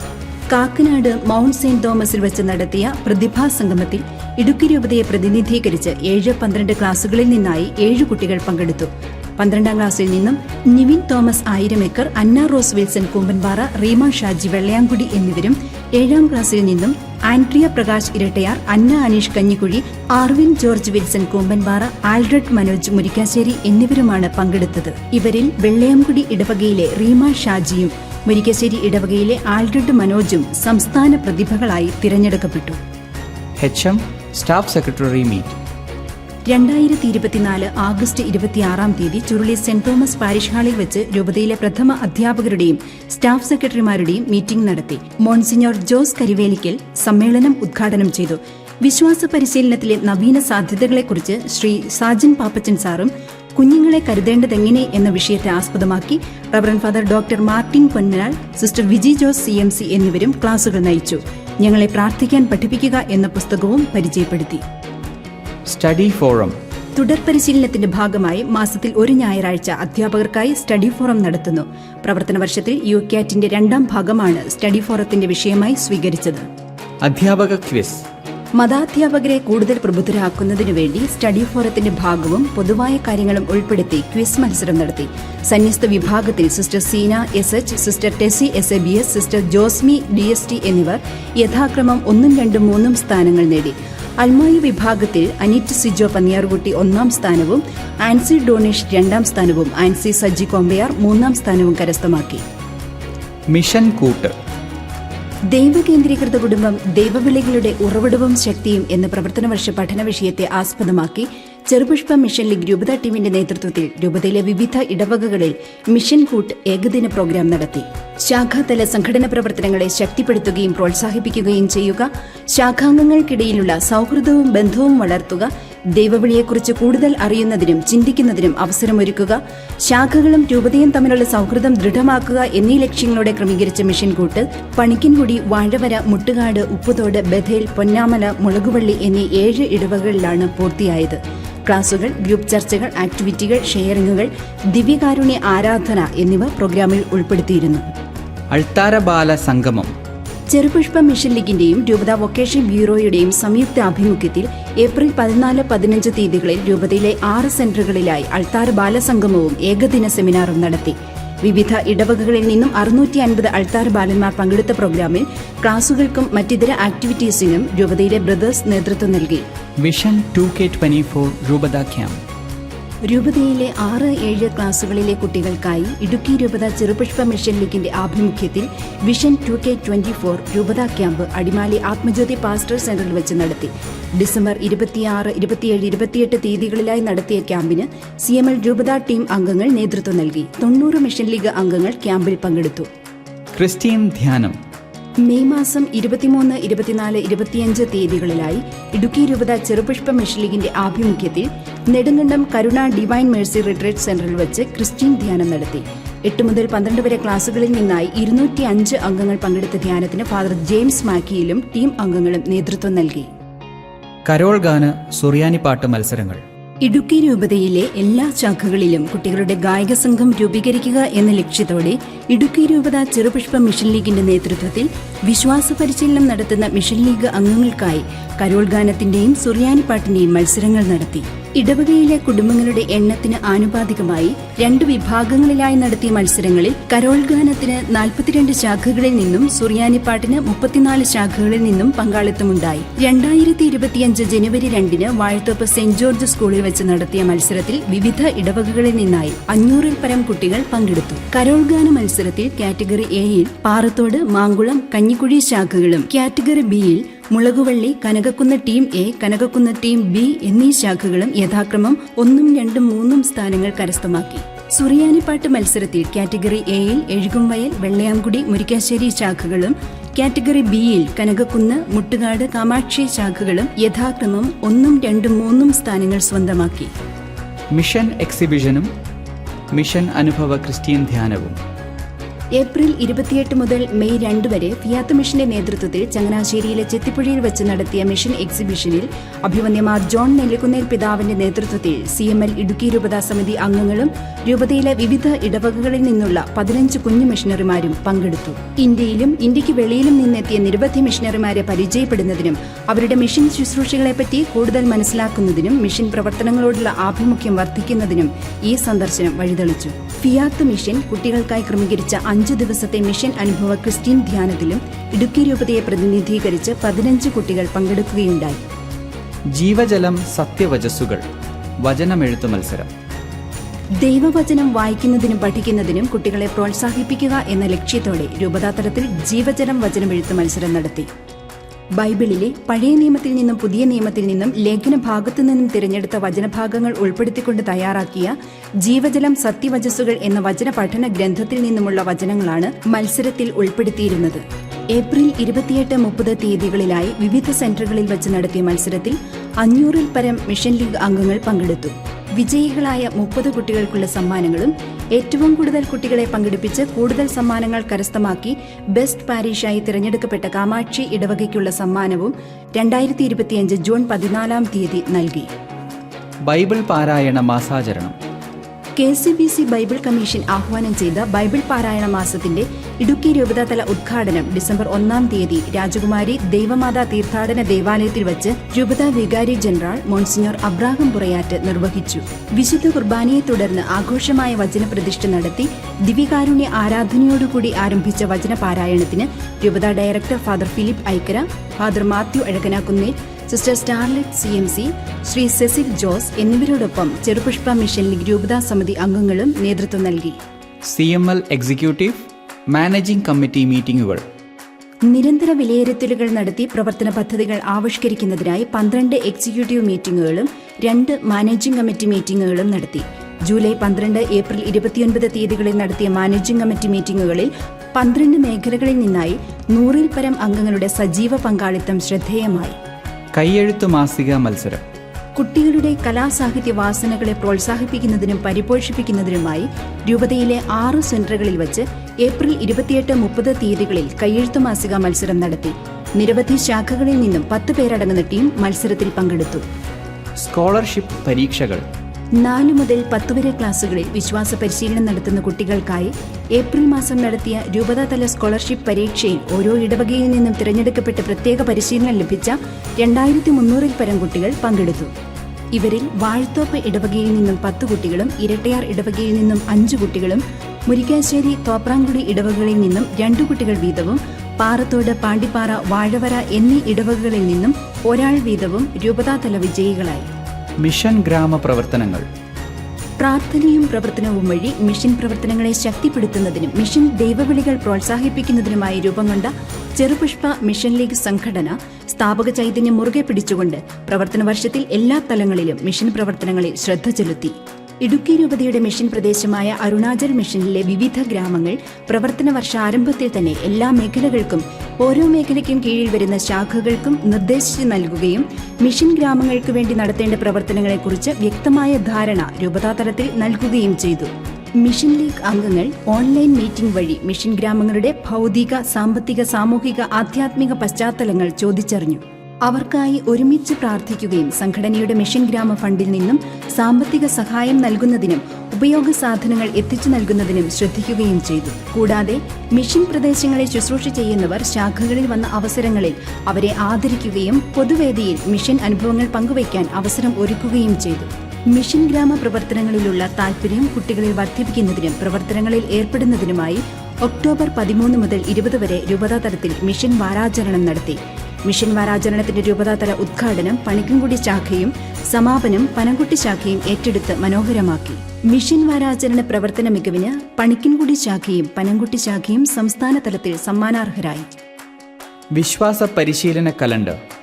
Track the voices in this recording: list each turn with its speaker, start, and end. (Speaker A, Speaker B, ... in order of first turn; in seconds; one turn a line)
Speaker A: 0.5-32.8
Speaker B: 33.6-35.6
Speaker A: 36.5-64.6
Speaker B: 65.7-66.5
Speaker A: 67.0-76.5
Speaker B: 77.0-78.1
Speaker A: 78.6-102.4
Speaker B: 103.5-104.3
Speaker A: 105.5-147.8
Speaker B: 148.5-149.9
Speaker A: 150.5-169.4
Speaker B: 169.8-172.2
Speaker A: 173.1-192.9
Speaker B: 193.5-194.6
Speaker A: 195.2-213.3
Speaker B: 214.2-216.4
Speaker A: 216.8-276.9
Speaker B: 277.7-278.9
Speaker B: 279.7-281.6
Speaker A: 282.6-318.6
Speaker B: 319.5-321.2
Speaker B: 321.8-322.9
Speaker A: 324.0-331.1
Speaker A: 332.0-365.5
Speaker B: 366.4-368.1
Speaker A: 369.0-400.4
Speaker B: 400.8-404.2
Speaker A: 405.1-422.8
Speaker B: 423.3-424.8
Speaker A: 425.4-439.6
Speaker B: 440.4-441.8
Speaker A: 442.4-455.1
Speaker A: 455.7-470.3
Speaker B: 470.8-472.2
Speaker A: 473.2-554.6
Speaker B: 555.5-557.2